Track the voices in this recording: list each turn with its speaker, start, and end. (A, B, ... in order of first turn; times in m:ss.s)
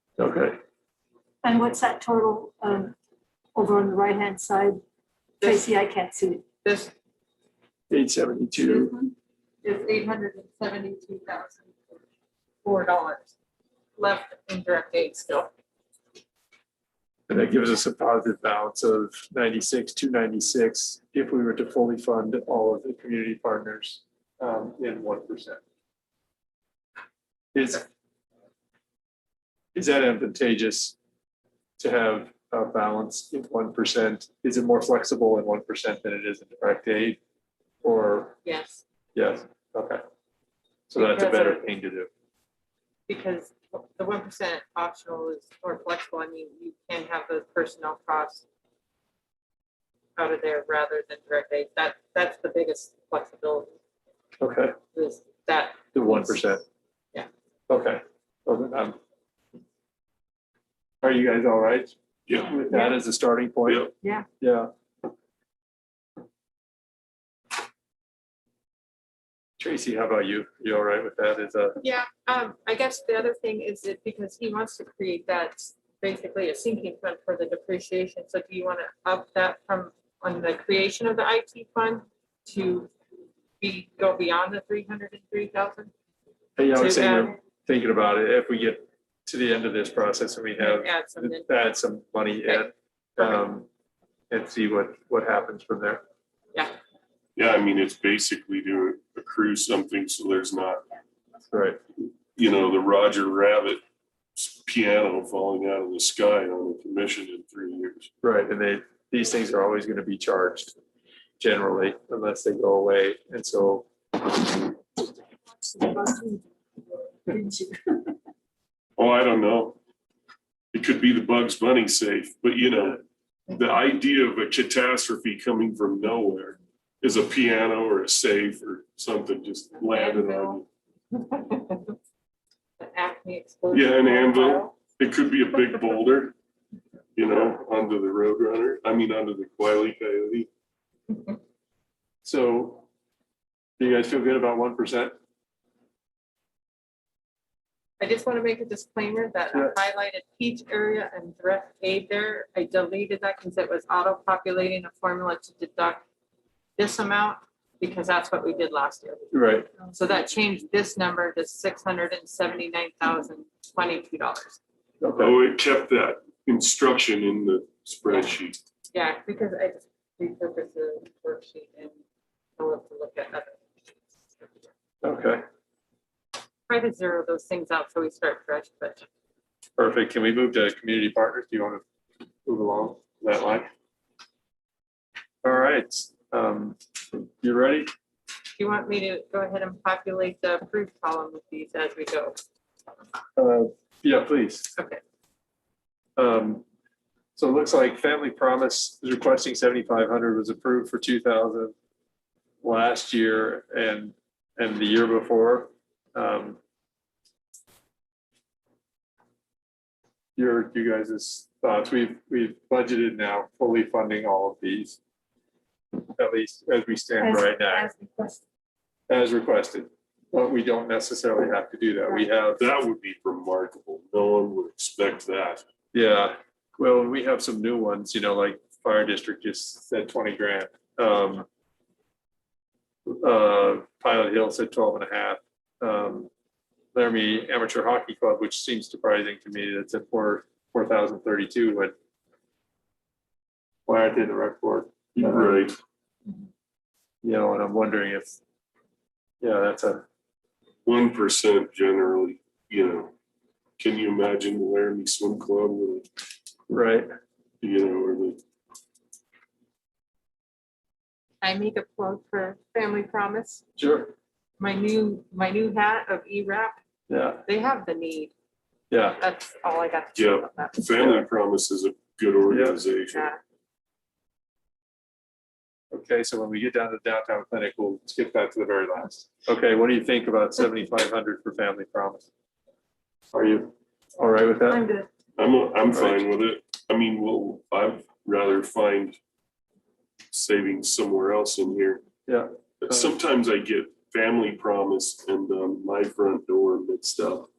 0:00.2-0:00.6 A
0:01.4-0:02.9 B
0:03.5-0:04.8 B
0:05.4-0:05.7 C
0:05.4-0:06.4 B
0:06.6-0:06.9 C
0:07.9-0:08.9 A
0:08.6-0:12.0 C
0:12.6-0:13.3 C
0:14.0-0:15.5 C
0:17.3-0:25.6 A
0:27.5-0:27.8 A
0:29.7-0:31.0 A
0:31.8-0:37.2 A
0:37.8-0:38.4 A
0:38.4-0:38.8 C
0:39.1-0:40.0 A
0:40.9-0:42.1 A
0:41.0-0:41.6 C
0:43.1-0:48.4 C
0:50.2-0:53.7 C
0:54.4-0:54.7 A
0:54.9-0:56.4 C
0:55.9-0:56.6 A
0:57.7-0:59.0 A
1:01.0-1:03.9 A
1:02.3-1:02.6 D
1:02.7-1:03.0 C
1:03.6-1:03.9 D
1:04.0-1:04.3 C
1:04.4-1:04.7 A
1:09.6-1:11.8 A
1:11.8-1:22.9 C
1:23.6-1:25.9 C
1:26.6-1:33.7 A
1:26.7-1:27.4 C
1:30.6-1:31.5 C
1:33.2-1:33.4 C
1:34.3-1:36.0 A
1:37.4-1:40.8 D
1:41.5-1:41.8 A
1:42.3-1:43.8 D
1:44.4-1:48.1 D
1:48.2-1:50.7 A
1:51.4-1:53.9 A
1:55.6-1:56.4 B
1:57.3-1:58.0 B
1:59.0-1:59.8 D
2:00.7-2:10.7 D
2:09.8-2:12.0 C
2:12.8-2:14.8 C
2:13.7-2:16.3 D
2:17.2-2:20.5 D
2:22.2-2:22.8 A
2:23.8-2:25.1 A
2:28.0-2:36.0 C
2:36.8-2:39.3 C
2:39.3-2:39.7 A
2:39.8-2:44.6 C
2:45.0-2:45.3 A
2:45.2-2:48.6 D
2:48.9-2:51.9 C
2:52.6-2:53.7 C
2:55.0-2:55.4 A
2:56.7-2:59.0 C
2:59.8-3:01.8 A
3:02.4-3:03.7 A
3:05.4-3:07.9 A
3:08.6-3:12.4 C
3:13.4-3:14.7 A
3:14.8-3:15.0 C
3:16.2-3:16.6 A
3:17.4-3:21.7 A
3:22.6-3:26.6 A
3:30.4-3:35.0 A
3:36.0-3:37.9 A
3:37.2-3:38.4 B
3:39.1-3:42.7 A
3:42.6-3:45.6 D
3:45.9-3:51.5 A
3:53.1-3:56.3 A
3:56.9-4:01.9 A
4:03.8-4:05.6 A
4:05.1-4:05.8 D
4:07.2-4:08.4 A
4:09.4-4:10.0 A
4:10.8-4:13.1 D
4:13.8-4:16.1 D
4:16.7-4:17.1 A
4:17.6-4:18.4 D
4:21.4-4:23.6 C
4:23.8-4:24.1 A
4:24.6-4:26.8 C
4:27.1-4:27.4 A
4:27.4-4:28.3 C
4:28.9-4:29.2 A
4:29.2-4:30.8 C
4:30.1-4:33.3 D
4:31.0-4:31.3 A
4:32.5-4:32.8 A
4:33.1-4:33.4 C
4:35.9-4:42.3 A
4:43.3-4:44.8 A
4:44.7-4:45.1 B
4:45.4-4:49.2 D
4:45.9-4:46.2 A
4:50.3-4:52.0 D
4:52.2-4:53.1 A
4:52.8-4:57.5 D